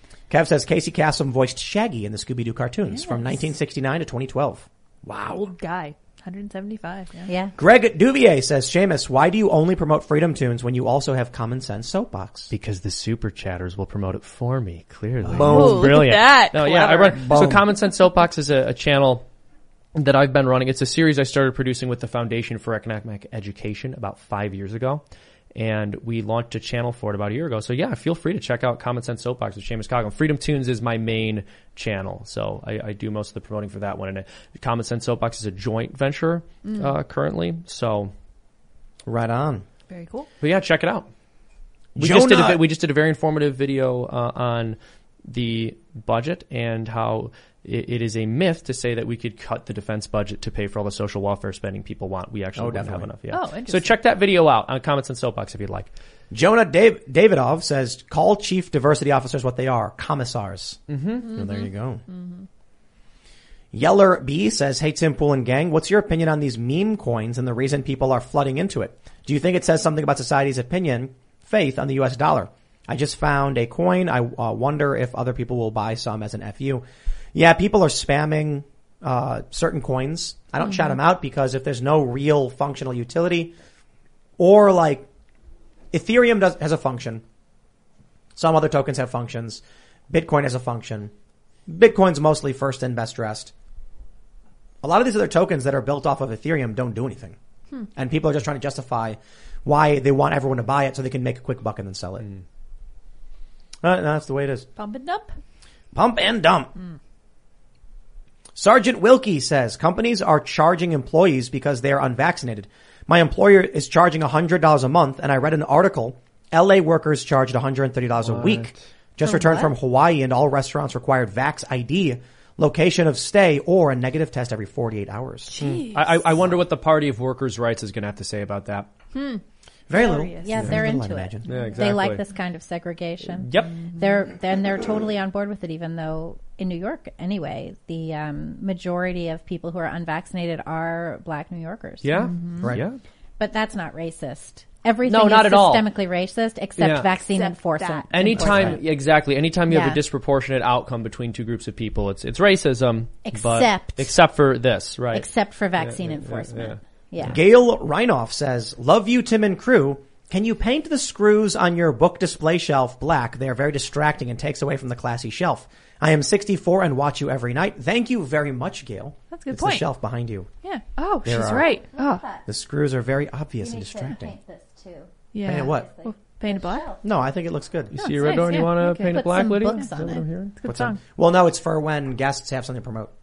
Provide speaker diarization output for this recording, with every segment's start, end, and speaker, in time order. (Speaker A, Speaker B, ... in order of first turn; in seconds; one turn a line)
Speaker A: 0.3-5.4
Speaker B: 2.9-3.4
Speaker B: 5.3-7.3
Speaker C: 7.3-7.5
Speaker A: 7.6-12.5
Speaker D: 12.5-19.2
Speaker A: 15.2-16.0
Speaker B: 15.3-17.3
Speaker A: 17.2-17.6
Speaker D: 19.9-25.0
Speaker D: 25.5-38.1
Speaker A: 39.0-39.6
Speaker B: 39.9-40.3
Speaker D: 40.4-41.1
Speaker A: 42.0-42.6
Speaker D: 42.0-55.9
Speaker A: 52.6-53.1
Speaker B: 53.3-54.0
Speaker A: 56.3-62.0
Speaker D: 60.9-61.2
Speaker B: 61.2-62.4
Speaker A: 63.7-83.5
Speaker A: 84.4-85.1
Speaker A: 85.9-87.2
Speaker A: 88.3-91.1
Speaker A: 91.7-93.5
Speaker A: 94.8-97.4
Speaker A: 97.9-102.3
Speaker A: 103.8-104.7
Speaker B: 104.8-105.4
Speaker A: 105.9-106.7
Speaker A: 108.5-125.6
Speaker D: 118.2-118.7
Speaker C: 119.2-119.7
Speaker B: 125.5-126.3
Speaker D: 125.6-128.9
Speaker B: 129.1-130.7
Speaker A: 129.9-131.5
Speaker C: 130.3-142.1
Speaker D: 131.5-132.2
Speaker D: 133.4-133.7
Speaker D: 142.0-143.0
Speaker B: 142.2-142.6
Speaker C: 143.4-148.8
Speaker D: 145.1-145.9
Speaker D: 146.8-147.1
Speaker B: 147.3-148.8
Speaker D: 148.1-155.3
Speaker C: 149.7-150.0
Speaker C: 153.2-154.2
Speaker C: 155.1-157.4
Speaker D: 155.8-156.8
Speaker A: 157.2-170.5
Speaker B: 169.3-169.9
Speaker B: 170.6-172.2
Speaker A: 171.2-171.8
Speaker C: 171.8-172.4
Speaker A: 172.4-174.3
Speaker C: 173.6-177.0
Speaker B: 175.3-176.9
Speaker A: 175.4-175.9
Speaker A: 177.0-177.9
Speaker D: 177.9-180.6
Speaker B: 178.0-179.9
Speaker C: 179.0-180.2
Speaker B: 180.6-181.0
Speaker A: 180.6-183.1